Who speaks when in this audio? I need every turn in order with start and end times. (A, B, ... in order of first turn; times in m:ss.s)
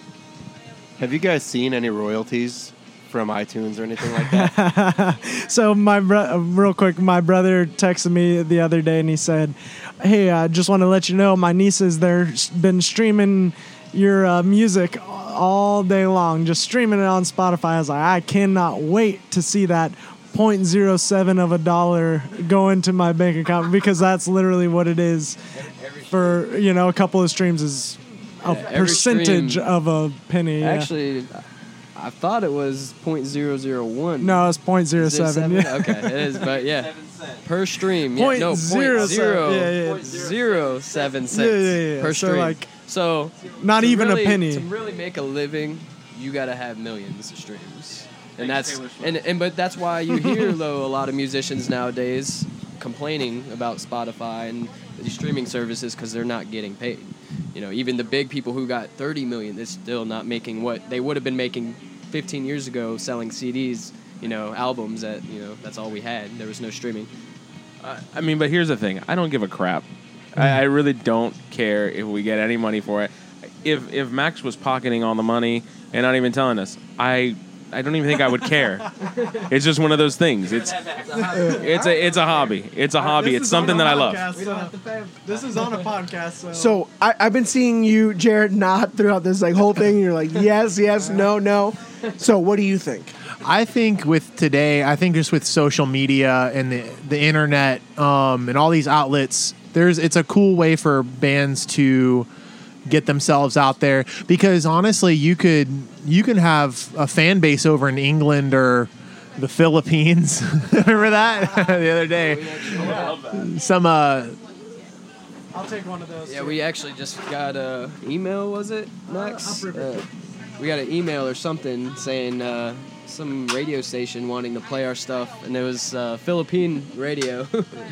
0:01.0-0:04.6 A
0:04.1-0:25.4 B
0:26.0-0:30.9 B
0:28.5-0:29.6 C
0:30.6-0:31.4 C
0:32.0-0:34.4 C
0:34.2-0:36.4 B
0:35.0-1:07.1 C
0:36.3-0:37.4 D
0:38.1-0:40.2 B
0:41.3-0:42.8 B
0:43.5-0:44.7 B
0:48.4-0:49.3 D
0:50.2-0:50.5 B
1:07.8-1:13.1 D
1:13.6-1:24.3 D
1:21.2-1:22.1 B
1:21.3-1:21.6 E
1:22.9-1:26.8 B
1:24.4-1:24.7 C
1:26.5-1:33.1 E
1:33.4-1:42.3 F
1:42.9-1:52.6 F
1:52.2-1:53.2 C
1:52.7-1:53.5 D
1:52.8-1:53.2 B
1:53.3-1:54.4 F
1:55.5-1:56.6 B
1:56.3-2:00.0 C
1:59.1-2:00.0 B
2:00.6-2:07.8 C